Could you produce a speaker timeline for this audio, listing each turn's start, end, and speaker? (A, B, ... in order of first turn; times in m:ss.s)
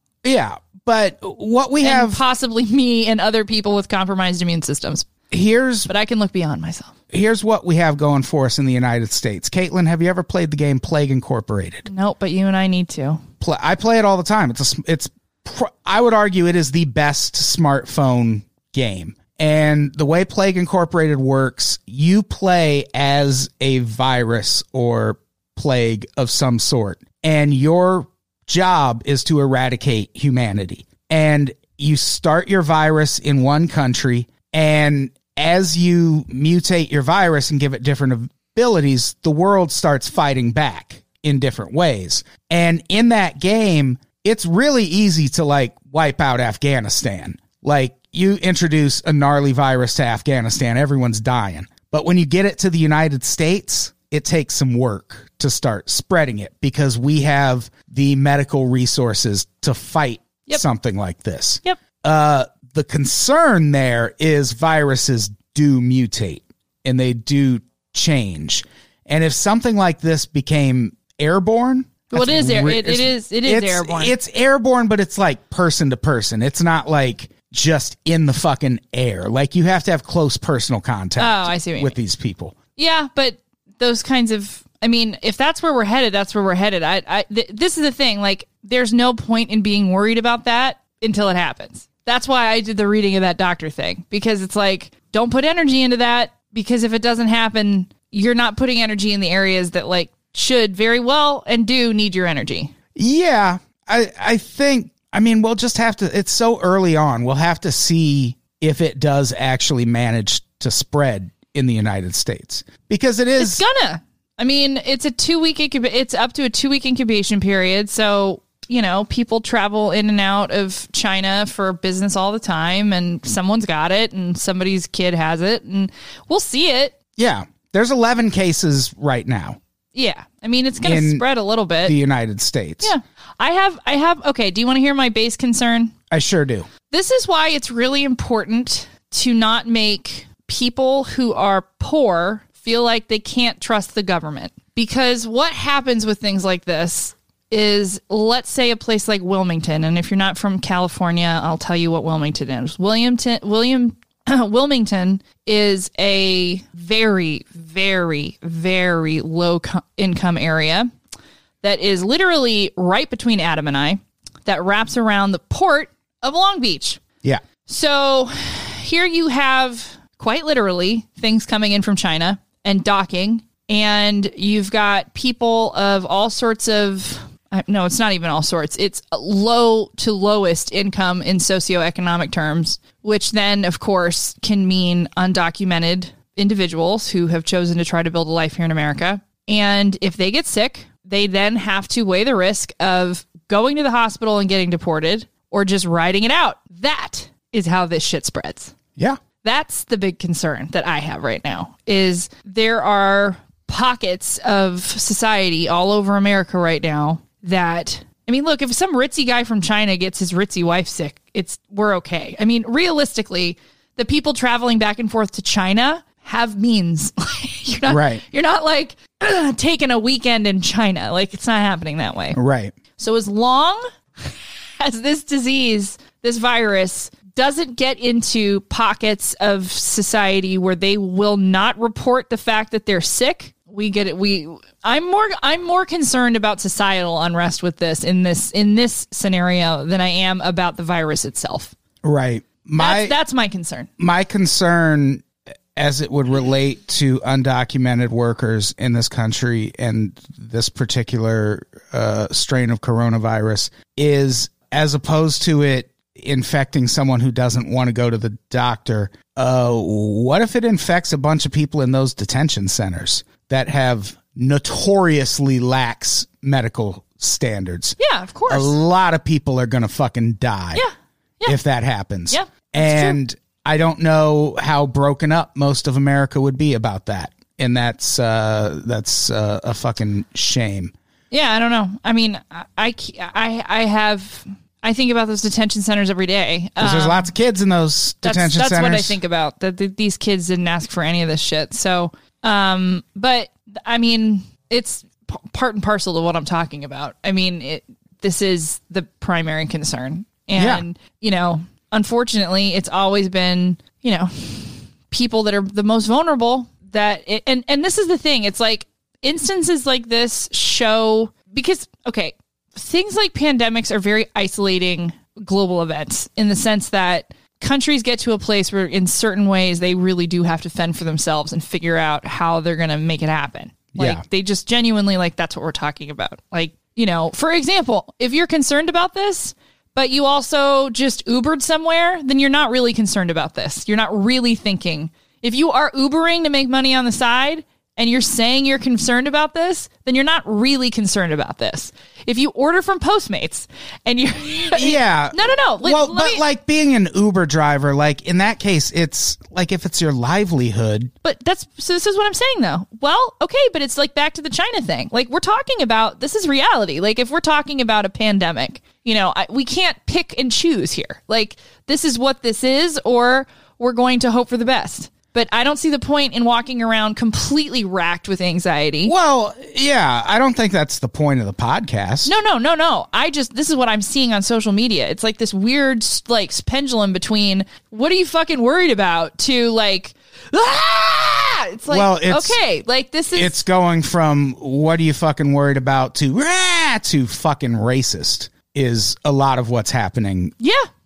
0:00.2-0:02.2 A
0:01.8-0:05.1 B
0:05.3-0:05.9 A
0:05.9-0:06.9 B
0:07.1-0:11.9 A
0:11.8-0:13.2 B
0:13.4-1:22.5 A
1:12.1-1:14.1 B
1:21.2-1:22.0 B
1:22.8-1:42.7 B
1:42.9-1:53.6 A
1:53.4-2:06.9 B
2:07.2-2:09.6 A
2:09.9-2:11.9 B
2:10.8-2:11.2 A
2:11.8-2:12.9 A
2:12.8-2:15.9 B
2:16.1-2:16.7 A
2:16.9-2:40.9 B
2:41.6-2:47.0 B
2:47.6-3:18.7 B
3:19.4-3:42.4 B
3:37.9-3:38.2 A
3:42.3-3:42.7 A
3:43.0-4:01.7 B
4:02.0-4:03.1 A
4:02.8-4:03.9 B
4:04.0-4:05.2 A
4:05.7-4:30.8 A
4:28.0-4:28.7 B
4:30.7-4:31.6 B
4:31.4-4:40.9 A
4:32.3-4:33.2 B
4:41.3-4:47.3 B
4:46.8-4:49.2 A
4:48.2-5:46.4 B
5:00.5-5:00.8 A
5:23.9-5:24.2 A
5:44.7-5:51.1 A
5:51.2-6:09.1 B
6:09.0-6:12.3 A
6:12.2-6:23.6 B
6:21.9-6:22.6 A
6:23.4-6:30.5 A
6:30.6-6:30.9 B